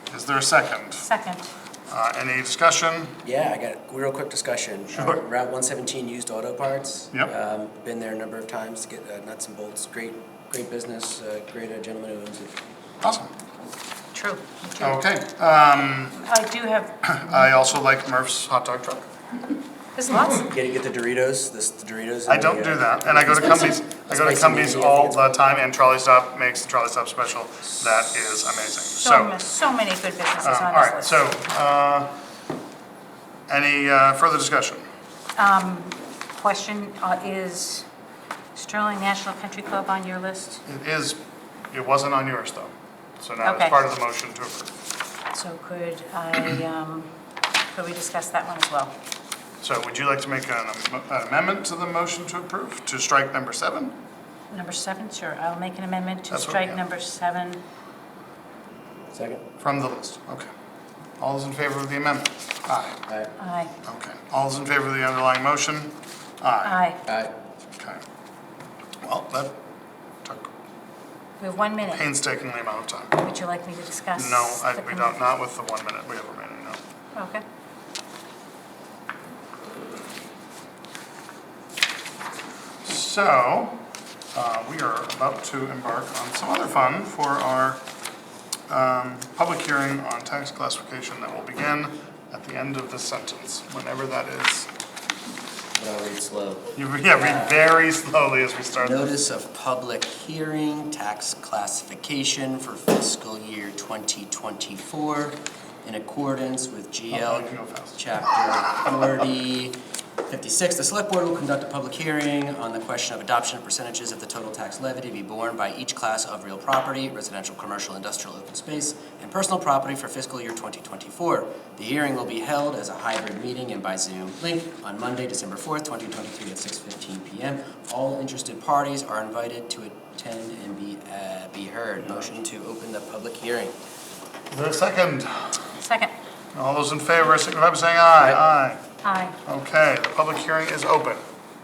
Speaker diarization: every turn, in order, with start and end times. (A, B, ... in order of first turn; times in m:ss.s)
0:00.1-0:01.1 A
0:01.0-0:01.5 B
0:01.9-0:03.2 A
0:03.2-0:12.6 C
0:04.9-0:05.2 A
0:13.0-0:13.3 A
0:14.1-0:15.0 B
0:14.8-0:16.2 A
0:16.1-0:17.6 B
0:17.0-0:19.1 A
0:20.0-0:20.5 B
0:20.3-0:25.5 C
0:22.3-0:29.4 A
0:28.9-0:31.3 B
0:30.4-0:32.1 A
0:33.5-0:34.8 A
0:35.4-0:37.9 B
0:38.6-0:40.6 B
0:40.7-0:41.2 A
0:41.7-0:44.7 A
0:43.4-0:43.8 B
0:45.3-0:47.1 B
0:47.7-0:48.9 B
0:49.6-0:54.0 A
0:54.5-0:57.6 B
0:56.3-0:56.8 A
0:59.1-0:59.4 C
0:59.6-1:00.5 A
1:01.2-1:03.0 A
1:03.4-1:03.7 B
1:03.8-1:06.8 A
1:06.6-1:07.0 B
1:07.1-1:07.3 C
1:09.0-1:09.6 A
1:10.2-1:10.5 A
1:11.4-1:12.0 B
1:11.9-1:13.1 A
1:13.2-1:15.1 B
1:14.2-1:16.8 A
1:17.1-1:17.4 B
1:22.8-1:23.8 A
1:24.3-1:27.8 A
1:28.7-1:34.7 A
1:35.8-1:37.6 C
1:36.8-1:39.1 A
1:38.8-2:13.8 C
1:47.1-1:48.0 A
2:12.0-2:12.3 A
2:14.5-2:15.6 A
2:15.8-2:16.2 B
2:16.5-2:18.8 A
2:19.0-2:19.4 B
2:19.5-2:21.2 A